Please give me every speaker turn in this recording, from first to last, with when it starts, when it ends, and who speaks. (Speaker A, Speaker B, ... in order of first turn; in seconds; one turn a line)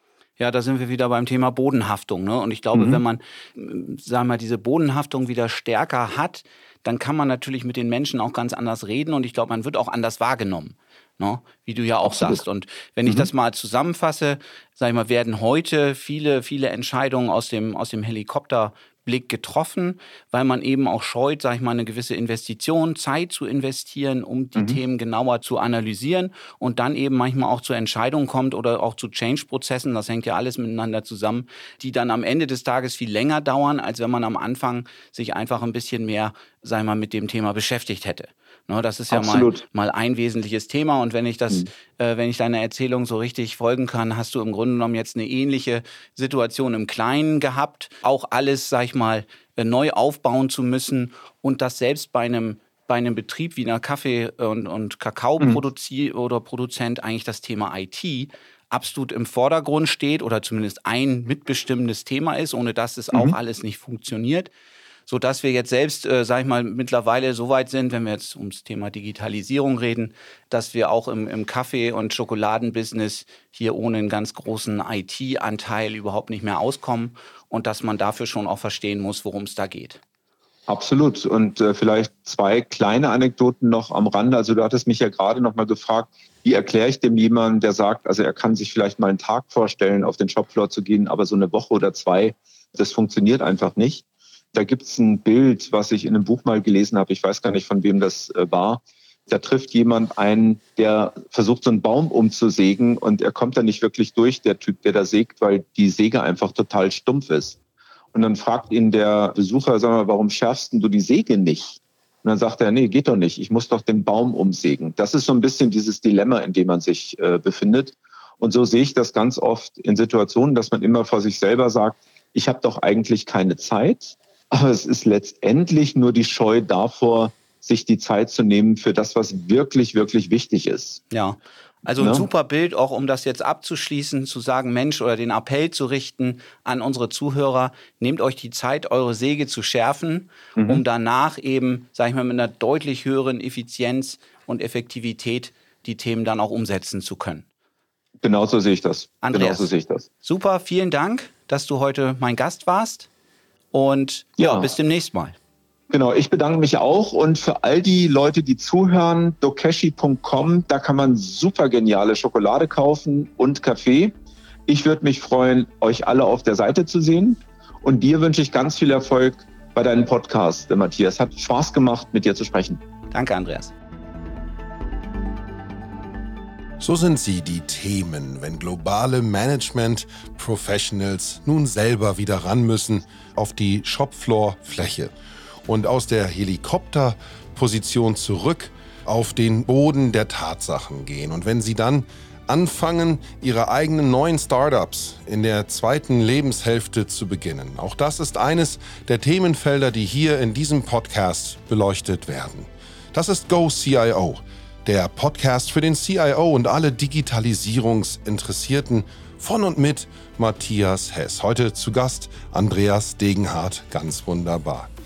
Speaker A: 0.4-64.5
Speaker B: 2.7-3.0
Speaker B: 12.1-12.4
Speaker B: 39.1-39.6
Speaker B: 63.1-63.4
Speaker A: 65.1-80.0
Speaker B: 80.7-107.6
Speaker B: 108.1-131.0
Speaker A: 131.1-147.4
Speaker B: 132.0-132.3
Speaker B: 140.6-140.8
Speaker B: 148.2-150.1
Speaker A: 149.2-149.7
Speaker A: 150.2-153.1
Speaker A: 153.7-155.4
Speaker B: 154.4-154.7
Speaker B: 155.9-164.1
Speaker B: 164.7-172.8
Speaker A: 173.1-173.7
Speaker C: 176.8-185.1
Speaker C: 185.7-214.9